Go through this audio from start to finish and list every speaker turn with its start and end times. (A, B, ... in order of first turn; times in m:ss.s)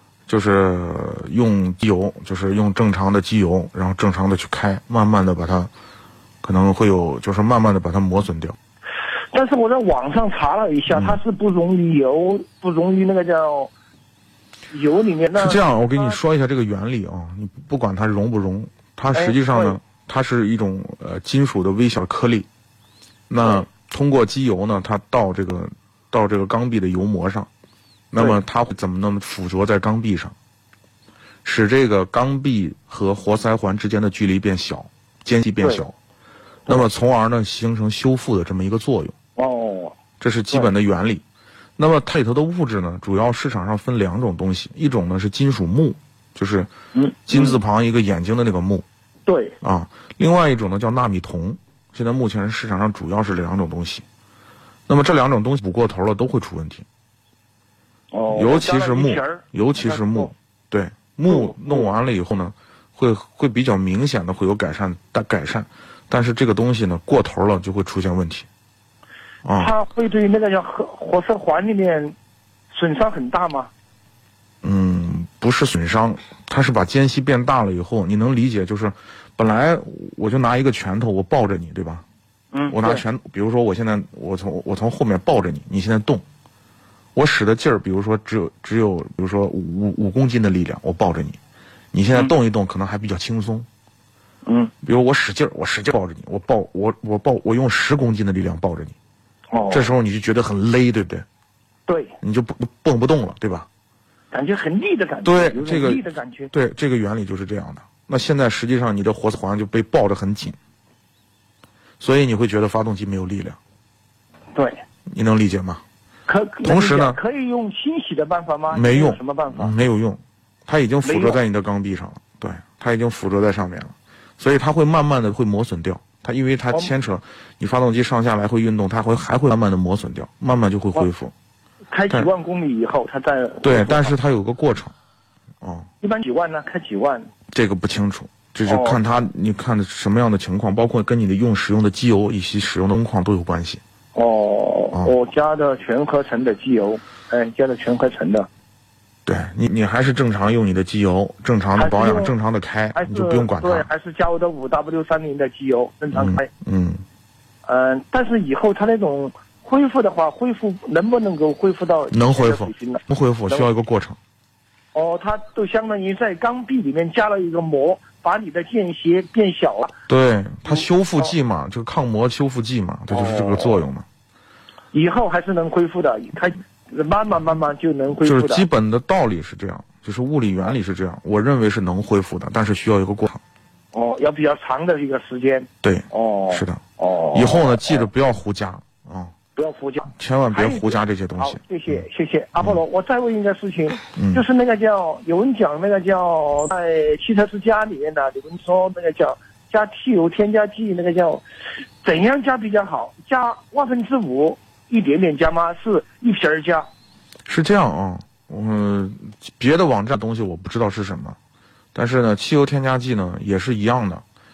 0:00.3-0:05.7 A
0:06.4-0:08.6 A
0:09.3-0:13.7 B
0:10.9-0:11.2 A
0:14.7-0:16.2 B
0:15.3-0:22.5 A
0:19.1-0:19.8 B
0:23.3-0:27.5 A
0:28.1-0:30.3 A
0:31.4-0:35.9 A
0:36.7-0:39.1 A
0:39.4-0:40.0 B
0:40.2-0:41.2 A
0:41.8-0:46.7 A
0:46.9-0:47.6 B
0:47.3-0:48.8 A
0:49.2-0:49.6 B
0:49.6-0:54.0 A
0:54.9-0:56.9 A
0:58.1-1:00.3 B
0:58.3-1:08.5 A
1:01.3-1:01.9 B
1:09.4-1:09.7 A
1:09.6-1:12.1 B
1:12.7-1:13.7 B
1:14.6-1:22.0 A
1:22.5-1:23.0 B
1:22.7-1:26.2 A
1:27.1-1:31.4 A
1:31.9-1:33.7 A
1:34.4-1:34.7 B
1:34.8-1:39.0 A
1:39.5-1:39.9 B
1:39.7-1:41.2 A
1:41.9-1:42.1 B
1:42.2-1:43.7 A
1:44.3-1:46.5 B
1:45.2-1:46.0 A
1:46.5-1:50.6 A
1:52.0-1:53.6 A
1:54.6-1:54.8 B
1:55.1-1:55.8 A
1:56.2-1:59.7 B
1:56.6-1:57.2 A
1:58.7-2:11.3 A
2:01.0-2:01.4 B
2:11.9-2:14.2 B
2:13.6-2:14.9 A
2:15.6-2:15.9 A
2:16.0-2:17.3 B
2:17.5-2:23.8 A
2:18.6-2:19.0 B
2:24.1-2:28.5 B
2:29.2-2:33.9 A
2:31.8-2:32.3 B
2:32.9-2:36.5 B
2:36.1-2:37.0 A
2:37.6-2:43.7 B
2:42.1-2:44.2 A
2:44.9-2:50.0 B
2:50.1-2:54.1 A
2:50.7-2:51.3 B
2:53.1-2:53.8 B
2:54.9-2:58.6 B
2:58.2-3:03.4 A
3:03.9-3:08.1 B
3:05.8-3:09.3 A
3:09.6-3:21.4 B
3:10.1-3:12.0 A
3:14.2-3:14.4 A
3:22.0-3:26.9 B
3:27.4-3:31.4 A
3:31.9-3:34.2 A